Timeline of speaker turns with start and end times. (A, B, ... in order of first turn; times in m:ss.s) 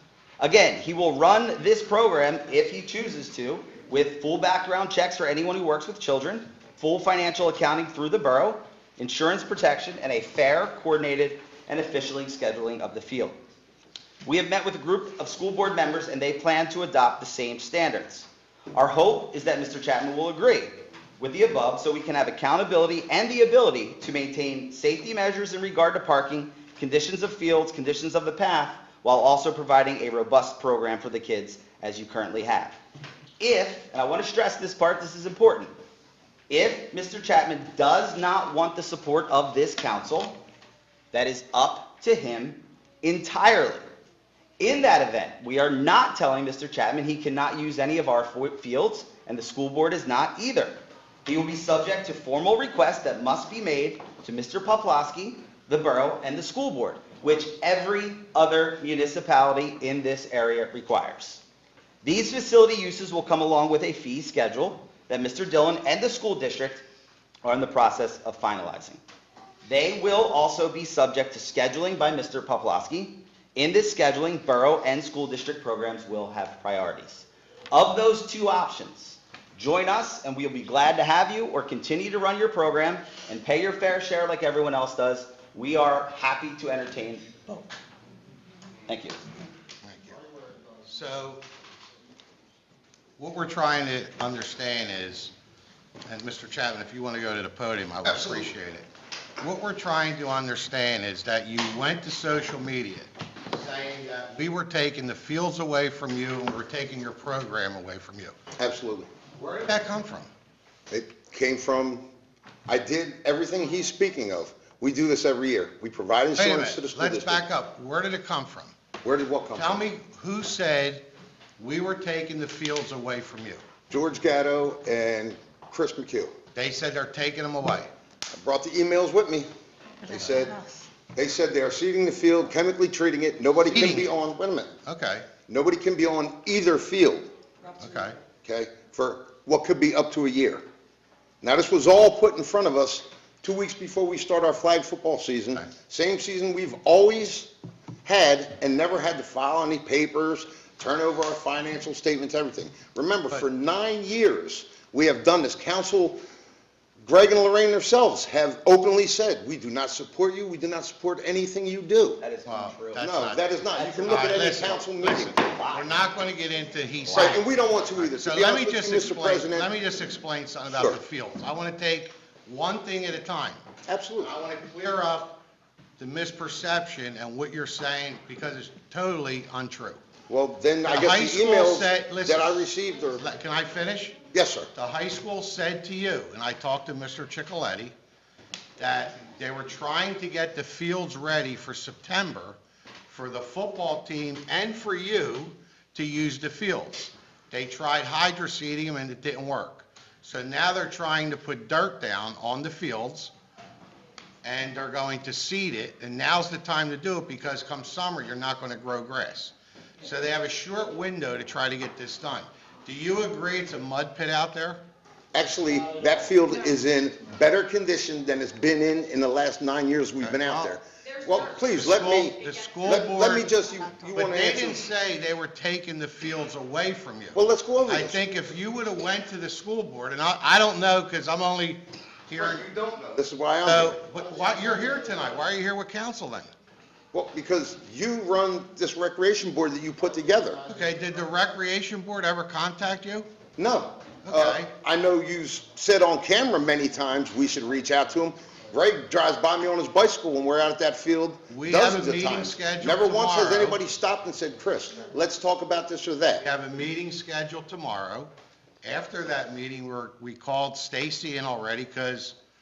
0:00.4-0:13.4 A
0:14.2-0:32.8 A
0:33.4-0:35.7 A
0:36.5-0:40.4 A
0:41.1-0:43.9 A
0:44.6-1:01.4 A
1:02.0-1:06.8 A
1:07.4-1:09.0 A
1:09.7-1:27.6 A
1:28.9-1:29.2 A
1:29.8-1:30.2 B
1:30.8-1:31.4 B
1:33.2-1:35.3 B
1:36.1-1:38.9 B
1:38.0-1:38.5 C
1:39.4-1:48.4 B
1:48.6-1:49.1 C
1:49.4-1:50.3 B
1:50.9-1:52.0 C
1:52.7-1:57.4 C
1:56.4-1:58.7 B
1:59.0-1:59.9 C
1:59.6-2:01.0 B
2:01.6-2:03.6 B
2:03.9-2:06.3 C
2:06.6-2:07.9 B
2:08.3-2:09.5 C
2:10.1-2:10.6 C
2:11.2-2:14.7 C
2:13.7-2:14.1 B
2:14.9-2:15.3 B
2:15.5-2:17.3 C
2:17.8-2:18.2 B
2:18.4-2:20.6 C
2:21.4-2:27.5 C
2:28.0-2:36.2 C
2:37.0-2:42.2 C
2:42.2-2:43.1 A
2:42.5-2:47.4 B
2:43.0-2:45.4 C
2:43.7-2:46.0 A
2:47.1-2:47.4 A
2:47.1-2:49.7 C
2:48.0-2:53.6 B
2:50.7-2:51.0 C
2:53.9-2:54.3 C
2:54.2-2:55.4 B
2:56.0-3:00.0 B
3:00.3-3:03.2 C
3:00.9-3:04.2 B
3:04.3-3:04.7 C
3:04.8-3:07.9 B
3:08.8-3:23.3 B
3:24.4-3:34.8 B
3:35.3-3:44.8 C
3:40.2-3:40.8 B
3:41.6-3:43.5 B
3:44.2-3:52.6 B
3:47.3-3:48.2 C
3:52.4-3:54.1 C
3:53.6-3:56.5 B
3:57.1-4:00.7 C
4:00.6-4:03.3 B
4:03.6-4:16.4 C
4:04.3-4:04.7 B
4:11.5-4:13.8 B
4:16.4-4:18.3 B
4:18.8-4:22.4 B